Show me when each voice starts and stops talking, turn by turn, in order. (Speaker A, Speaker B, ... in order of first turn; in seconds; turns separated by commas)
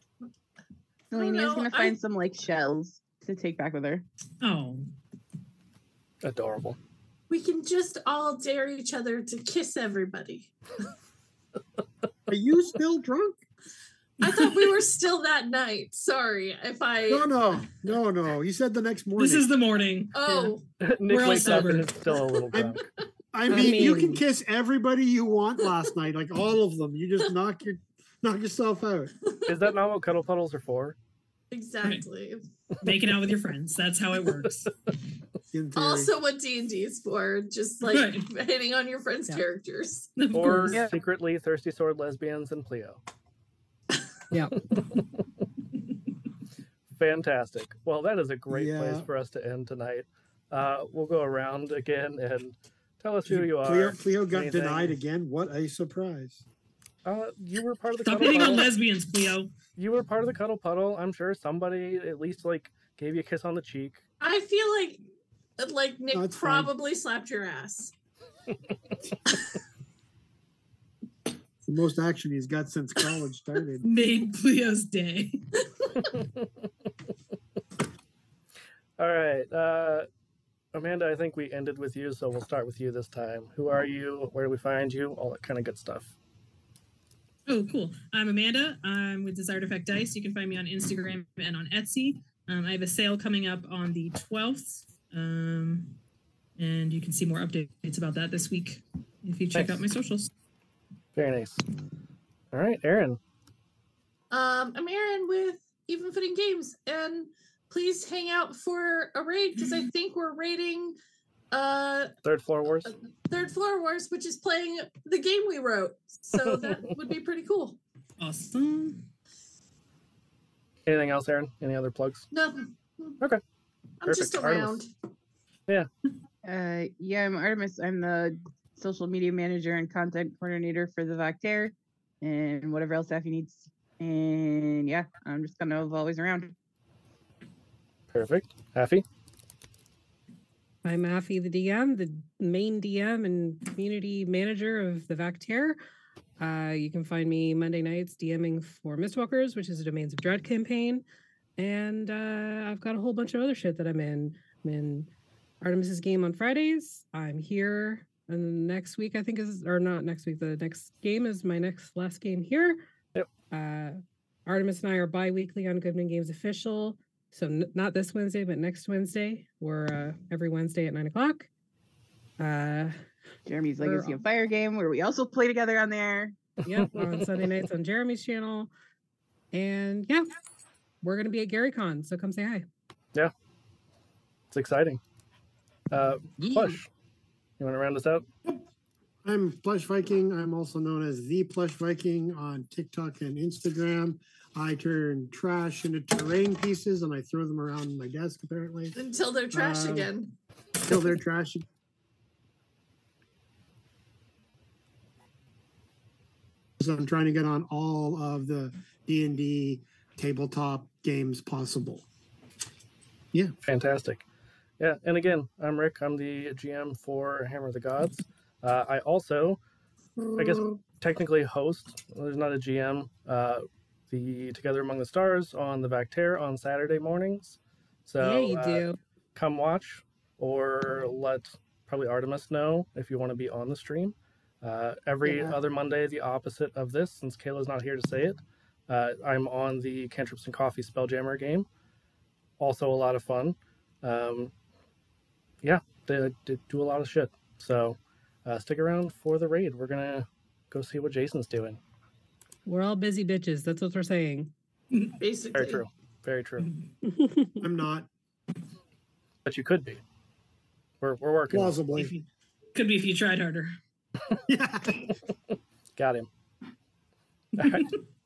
Speaker A: 1.1-4.0, Speaker B: 1.1-1.9, Speaker C: 4.4-4.9, Speaker D: 6.2-6.8, Speaker B: 7.3-10.5, Speaker E: 12.3-13.4, Speaker B: 14.2-17.3, Speaker C: 14.2-14.7, Speaker E: 17.1-19.5, Speaker C: 19.2-20.6, Speaker B: 20.1-20.6, Speaker D: 20.8-22.8, Speaker C: 21.1-22.0, Speaker B: 21.2-21.7, Speaker E: 22.5-22.8, Speaker E: 23.3-29.1, Speaker F: 23.5-24.2, Speaker B: 29.3-29.6, Speaker D: 29.5-30.9, Speaker B: 31.5-32.4, Speaker C: 32.8-34.7, Speaker E: 35.5-36.1, Speaker B: 35.8-40.1, Speaker C: 37.8-38.3, Speaker C: 40.2-40.8, Speaker D: 40.3-43.0, Speaker F: 44.3-44.6, Speaker D: 44.7-45.0, Speaker D: 46.9-55.0, Speaker E: 48.5-49.1, Speaker E: 53.2-56.4, Speaker D: 57.0-58.7, Speaker C: 58.0-59.5, Speaker D: 59.8-64.0, Speaker B: 64.2-65.0, Speaker B: 65.6-67.9, Speaker E: 66.1-66.7, Speaker E: 71.7-73.8, Speaker C: 73.8-75.4, Speaker D: 76.1-76.5, Speaker D: 79.0-80.1, Speaker D: 80.7-86.1, Speaker C: 87.5-96.0, Speaker C: 96.6-100.3, Speaker D: 99.5-99.8, Speaker D: 101.1-101.6, Speaker D: 102.5-103.2, Speaker B: 104.3-111.0, Speaker B: 111.5-112.1, Speaker D: 112.2-112.9, Speaker B: 112.9-117.8, Speaker D: 116.5-116.8, Speaker C: 118.2-119.0, Speaker D: 120.8-122.3, Speaker B: 122.3-123.2, Speaker B: 124.0-124.9, Speaker D: 124.0-124.8, Speaker A: 126.4-136.5, Speaker D: 138.1-139.0, Speaker F: 140.8-145.8, Speaker F: 146.4-151.0, Speaker F: 151.6-155.1, Speaker F: 155.6-162.8, Speaker F: 163.5-171.5, Speaker F: 172.4-173.0, Speaker A: 173.4-176.3, Speaker F: 173.8-174.2, Speaker F: 176.6-178.7, Speaker D: 176.7-177.2, Speaker F: 179.5-180.3, Speaker F: 181.0-182.7, Speaker D: 184.5-185.0, Speaker D: 185.9-186.9, Speaker D: 187.6-188.2, Speaker E: 189.2-198.9, Speaker B: 198.9-200.3, Speaker E: 199.5-200.1, Speaker E: 200.8-201.6, Speaker E: 206.8-212.0, Speaker D: 213.6-214.2, Speaker D: 214.8-219.6, Speaker E: 220.2-220.7, Speaker D: 220.3-241.7, Speaker F: 228.2-229.0, Speaker F: 235.2-235.6, Speaker D: 242.6-244.5, Speaker D: 245.6-251.8, Speaker F: 252.7-254.5, Speaker B: 255.2-255.8, Speaker D: 255.5-256.7, Speaker F: 257.0-257.5, Speaker E: 257.6-258.1, Speaker D: 259.4-260.0, Speaker D: 261.0-261.9, Speaker E: 261.5-262.1, Speaker C: 261.9-263.8, Speaker E: 264.5-265.1, Speaker D: 265.9-266.3, Speaker C: 267.6-268.0, Speaker D: 267.6-267.9